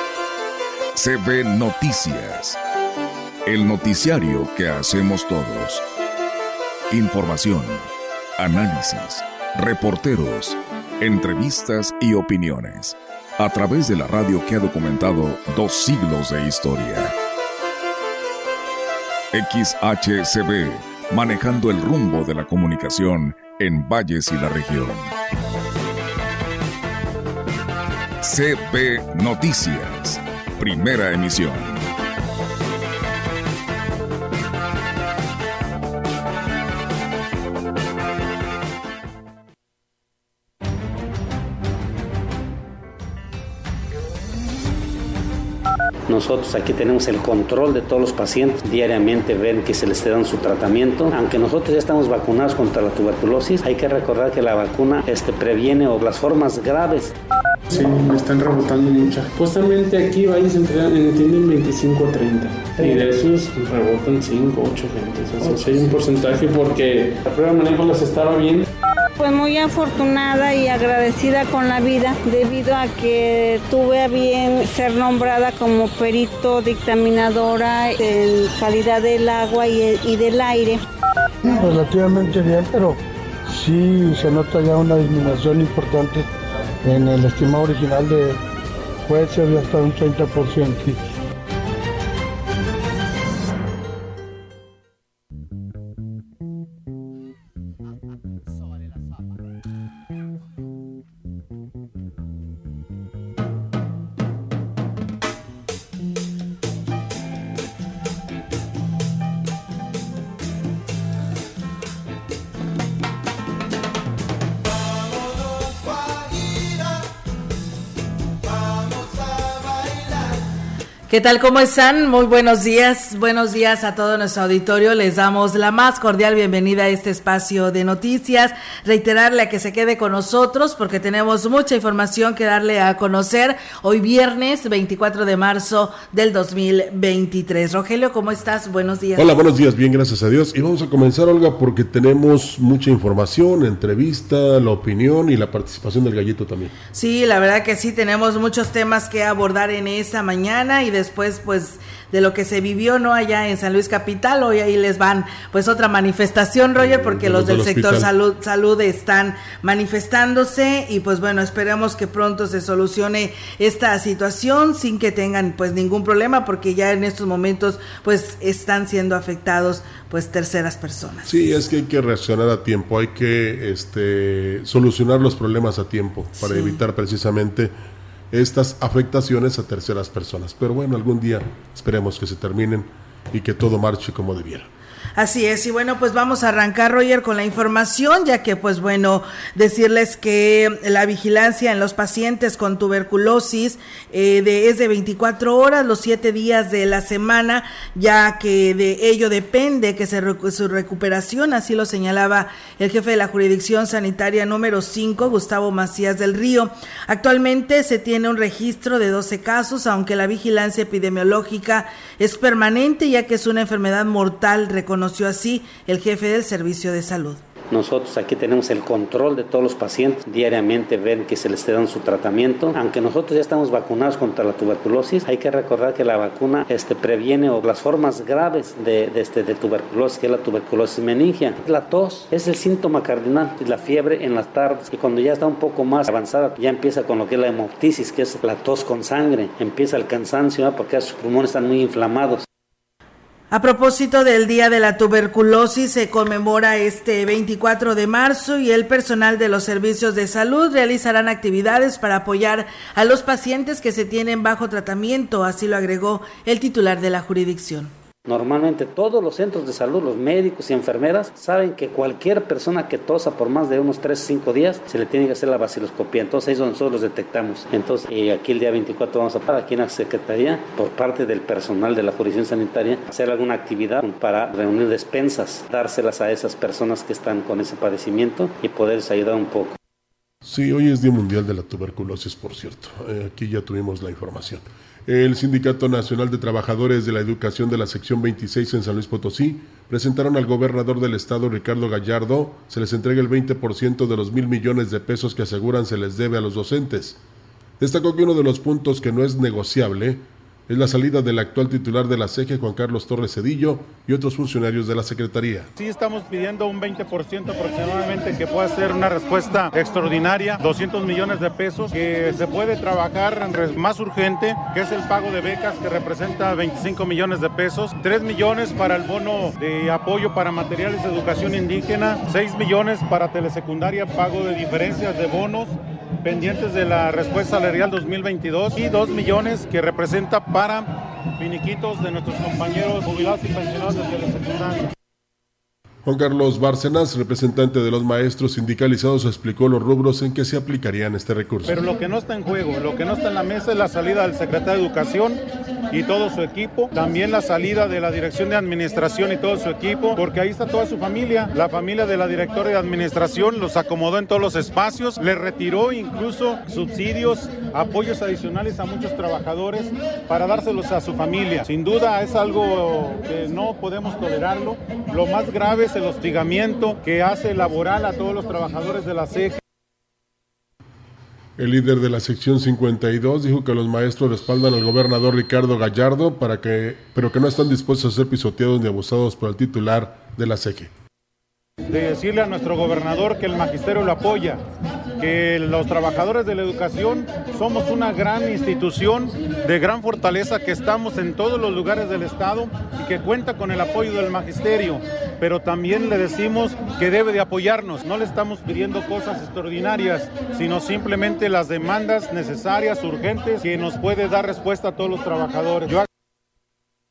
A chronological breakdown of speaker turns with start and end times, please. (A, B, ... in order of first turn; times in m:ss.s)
0:00.9-0:02.6 A
0:03.4-0:05.8 A
0:06.9-0:17.1 A
0:19.3-0:25.1 A
0:28.2-0:31.8 A
0:46.1-0:57.1 B
0:57.7-1:08.6 C
1:09.2-1:20.8 D
1:21.4-1:26.2 E
1:26.8-1:28.4 E
1:29.0-1:31.0 E
2:01.1-2:19.4 F
2:19.2-2:26.7 G
2:26.9-2:51.4 F
2:36.8-2:38.1 G
2:51.2-2:57.7 G
2:56.4-2:56.8 F
2:58.3-3:04.7 G
3:05.2-3:37.4 F
3:37.7-4:02.4 B
4:03.5-4:17.9 F
4:18.2-4:39.8 B
4:40.4-4:57.2 G
4:57.8-5:05.7 G
5:05.8-5:34.9 H
5:36.0-5:41.8 G
5:41.6-6:09.6 H
6:11.6-6:20.9 G
6:21.9-6:24.6 H
6:25.2-6:46.0 H